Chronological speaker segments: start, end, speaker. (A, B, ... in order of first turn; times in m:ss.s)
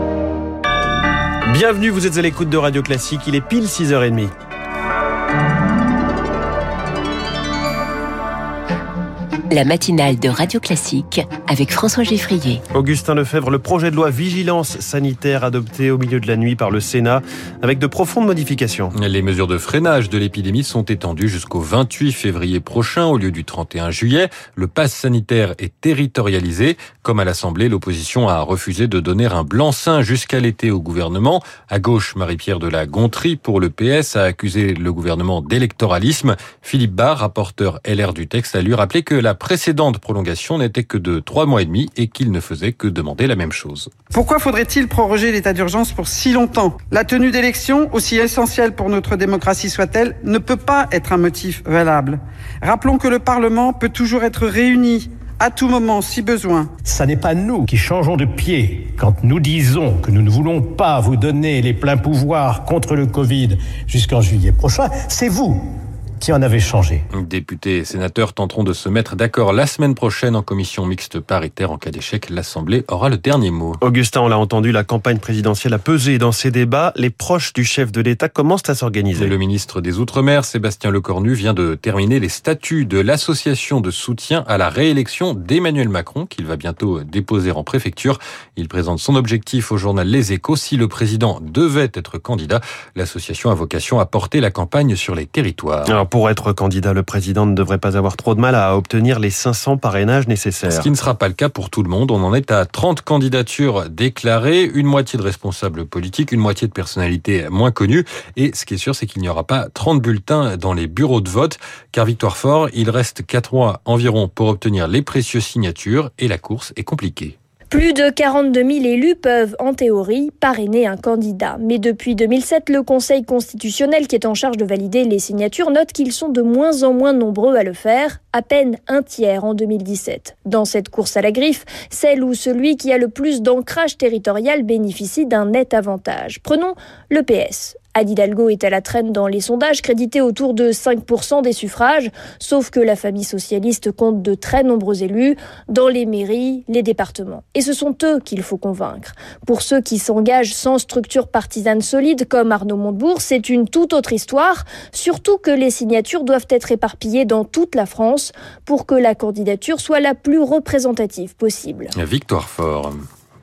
0:01.5-0:04.3 A
0:09.5-0:12.6 B
0:12.7-0:18.9 A
0:18.9-0:43.9 C
0:44.1-0:56.7 D
0:56.8-1:05.5 E
1:06.2-1:07.0 E
1:07.1-1:13.8 C
1:13.8-1:19.3 A
1:19.2-1:36.0 C
1:35.9-1:40.9 A
1:40.7-1:57.3 C
1:57.7-2:41.9 F
2:42.0-2:43.0 C